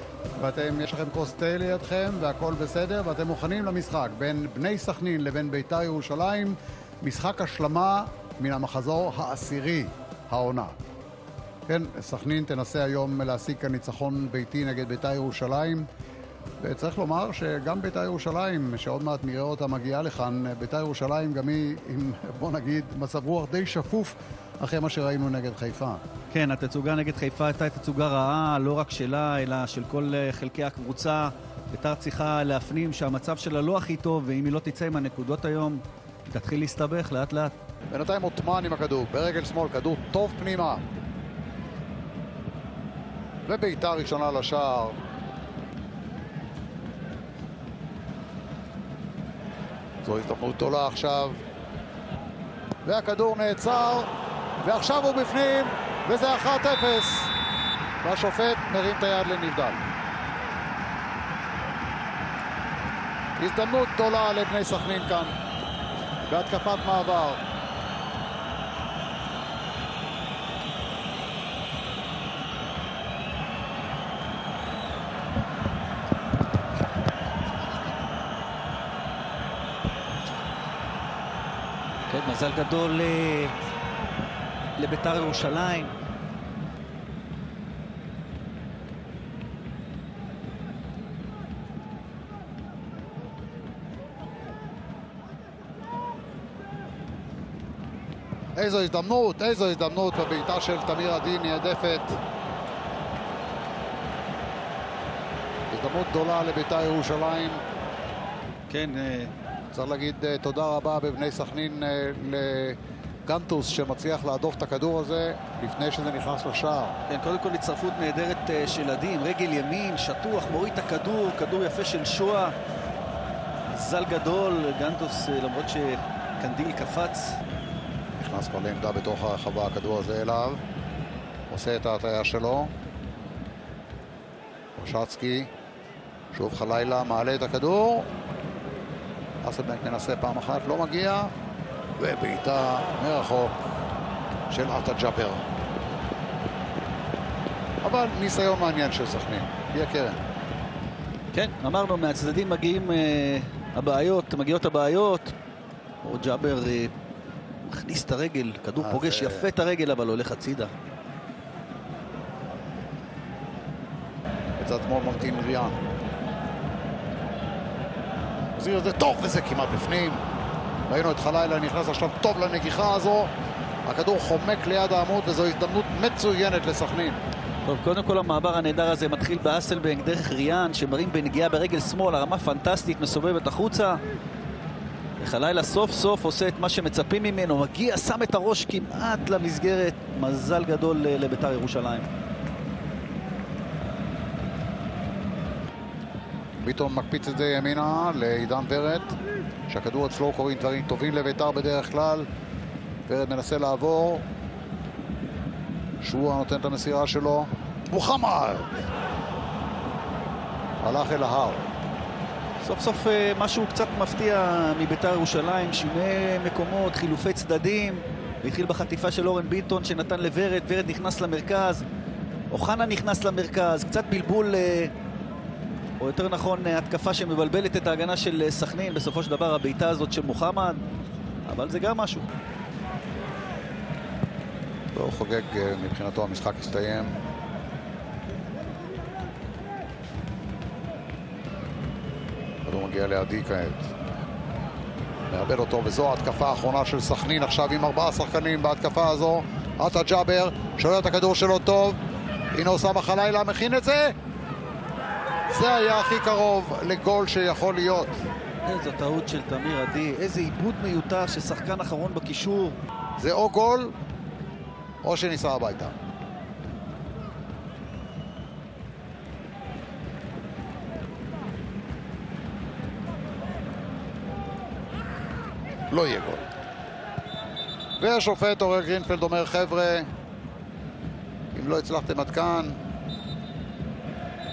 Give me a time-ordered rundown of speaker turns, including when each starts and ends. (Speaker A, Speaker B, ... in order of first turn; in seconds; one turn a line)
Speaker A: 0.4-10.8
Speaker A: 11.7-15.9
Speaker A: 16.6-26.0
Speaker B: 26.3-37.5
Speaker A: 37.9-40.8
Speaker A: 43.5-45.0
Speaker A: 50.0-51.4
Speaker A: 52.9-54.1
Speaker A: 54.6-57.3
Speaker A: 58.0-59.8
Speaker A: 63.4-65.3
Speaker A: 66.3-67.4
Speaker B: 82.1-83.6
Speaker B: 84.8-85.9
Speaker A: 98.6-102.2
Speaker A: 105.7-107.6
Speaker B: 108.7-109.3
Speaker A: 109.7-117.0
Speaker B: 117.1-122.5
Speaker B: 123.7-127.4
Speaker A: 128.2-130.6
Speaker A: 131.5-132.7
Speaker A: 134.8-135.5
Speaker A: 136.3-138.1
Speaker A: 139.4-141.3
Speaker A: 142.0-143.7
Speaker A: 144.5-145.4
Speaker A: 147.8-150.2
Speaker B: 151.3-155.3
Speaker B: 156.0-156.9
Speaker B: 157.7-160.7
Speaker A: 158.8-159.5
Speaker A: 164.6-165.8
Speaker A: 168.6-170.2
Speaker A: 170.9-173.3
Speaker A: 173.9-177.2
Speaker B: 177.7-184.0
Speaker B: 185.2-192.1
Speaker A: 196.6-199.2
Speaker A: 199.7-202.3
Speaker A: 203.1-204.2
Speaker A: 206.0-208.8
Speaker A: 210.8-211.7
Speaker B: 212.6-221.8
Speaker B: 222.5-224.9
Speaker B: 226.0-230.8
Speaker B: 231.5-232.3
Speaker A: 234.9-237.2
Speaker A: 242.7-243.9
Speaker A: 245.3-252.0
Speaker A: 252.5-254.2
Speaker A: 255.5-258.2
Speaker B: 258.6-262.8
Speaker A: 263.2-263.9
Speaker A: 265.0-265.9
Speaker A: 275.9-276.4
Speaker A: 278.0-280.1
Speaker A: 281.5-282.8